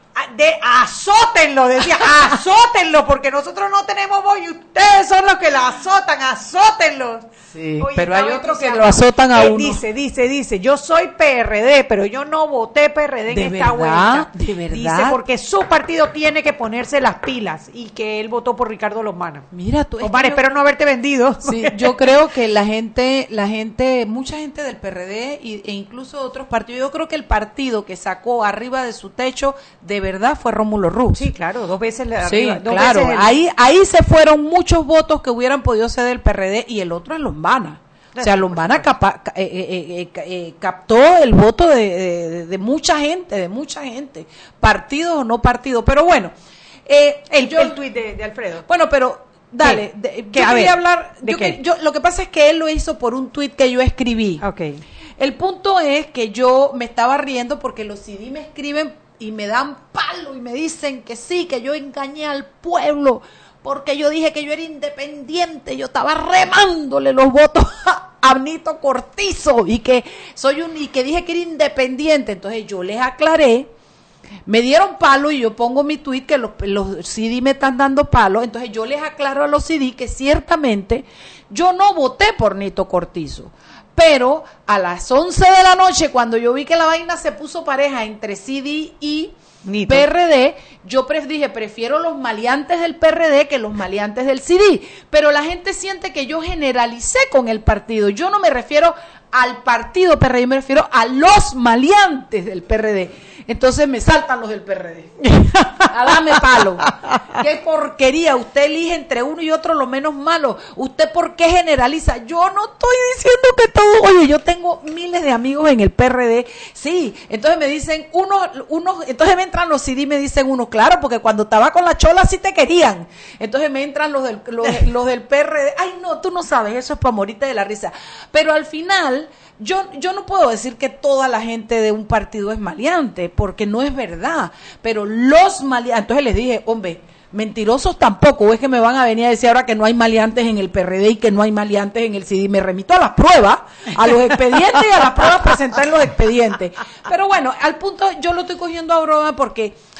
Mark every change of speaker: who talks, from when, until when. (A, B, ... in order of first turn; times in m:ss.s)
0:00.2-0:07.3 A
0:07.5-0:09.8 B
0:07.8-0:19.5 A
0:13.3-0:15.2 B
0:19.5-0:20.4 B
0:20.0-0:22.0 A
0:21.4-0:31.3 B
0:31.1-0:33.4 A
0:32.2-0:46.3 B
0:38.2-0:38.9 A
0:46.8-0:47.8 B
0:47.3-0:48.6 A
0:48.6-0:54.4 B
0:49.6-0:51.6 A
0:54.4-0:54.8 A
0:55.2-1:13.7 B
1:14.5-1:29.3 B
1:29.6-1:30.1 A
1:29.9-1:45.2 B
1:45.2-1:45.9 A
1:45.9-2:29.8 B
1:46.8-1:47.2 A